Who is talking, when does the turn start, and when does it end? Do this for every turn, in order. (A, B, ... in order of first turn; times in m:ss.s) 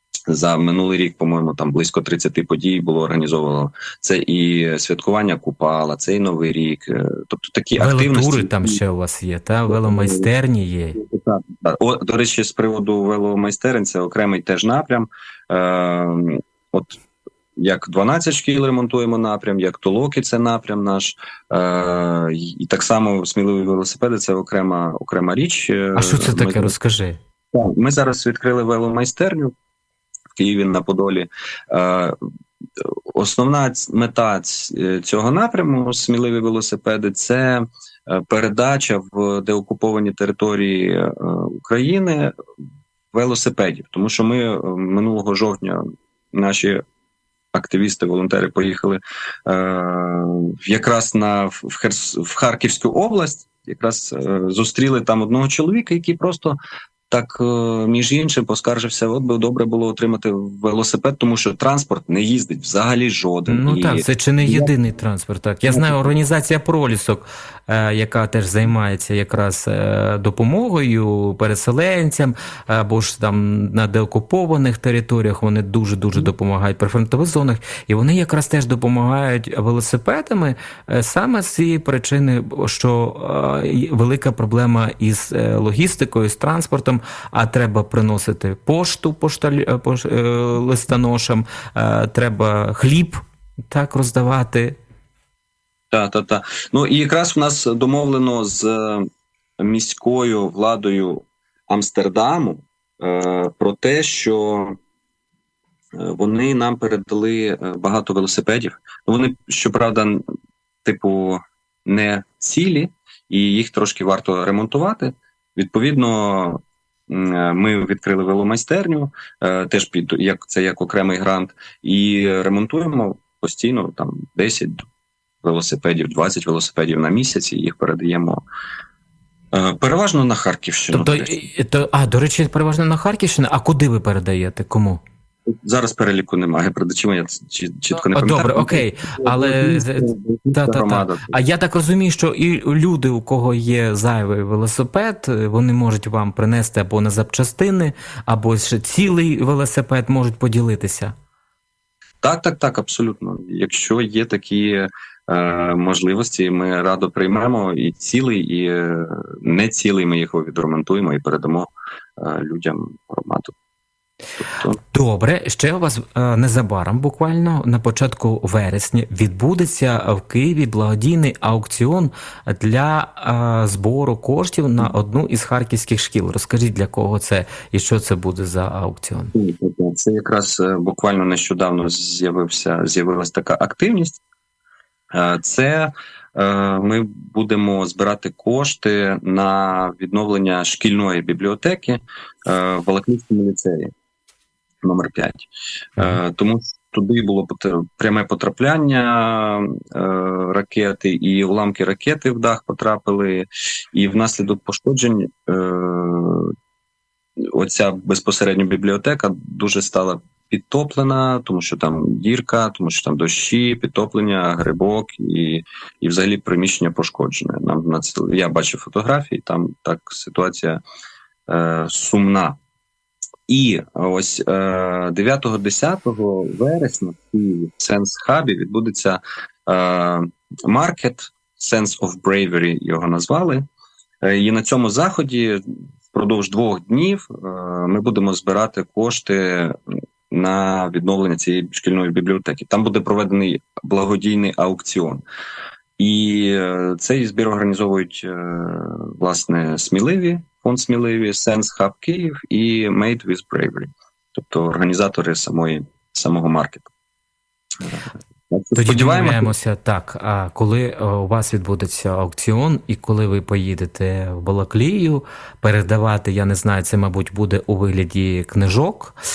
0:00.3-0:08.8 A
0:07.8-0:11.0 B
0:09.7-0:10.3 A
0:11.0-0:17.0 A
0:17.6-0:26.7 A
0:26.0-0:27.2 B
0:27.5-0:29.5 A
0:30.4-0:32.2 A
0:32.8-0:42.3 A
0:43.1-0:46.8 A
0:47.5-0:56.6 A
0:57.1-1:04.7 A
1:03.5-1:33.2 B
1:05.7-1:06.1 A
1:33.7-1:34.8 B
1:35.9-1:39.1 A
1:39.6-1:44.8 A
1:46.0-1:50.2 A
1:50.8-2:04.8 A
2:05.4-2:08.4 A
2:09.5-2:11.4 A
2:10.9-2:15.0 B
2:15.5-2:21.4 A
2:18.0-2:31.1 B
2:32.2-2:43.5 A
2:44.9-2:59.3 B
2:59.4-3:04.2 A
3:05.1-3:13.9 A
3:14.8-3:26.5 A
3:27.5-3:40.8 A
3:41.5-3:42.6 A
3:43.5-3:53.6 A
3:54.2-3:59.8 A
4:00.3-4:05.2 A
4:06.0-4:16.9 A
4:17.8-4:19.5 A
4:18.7-4:29.2 B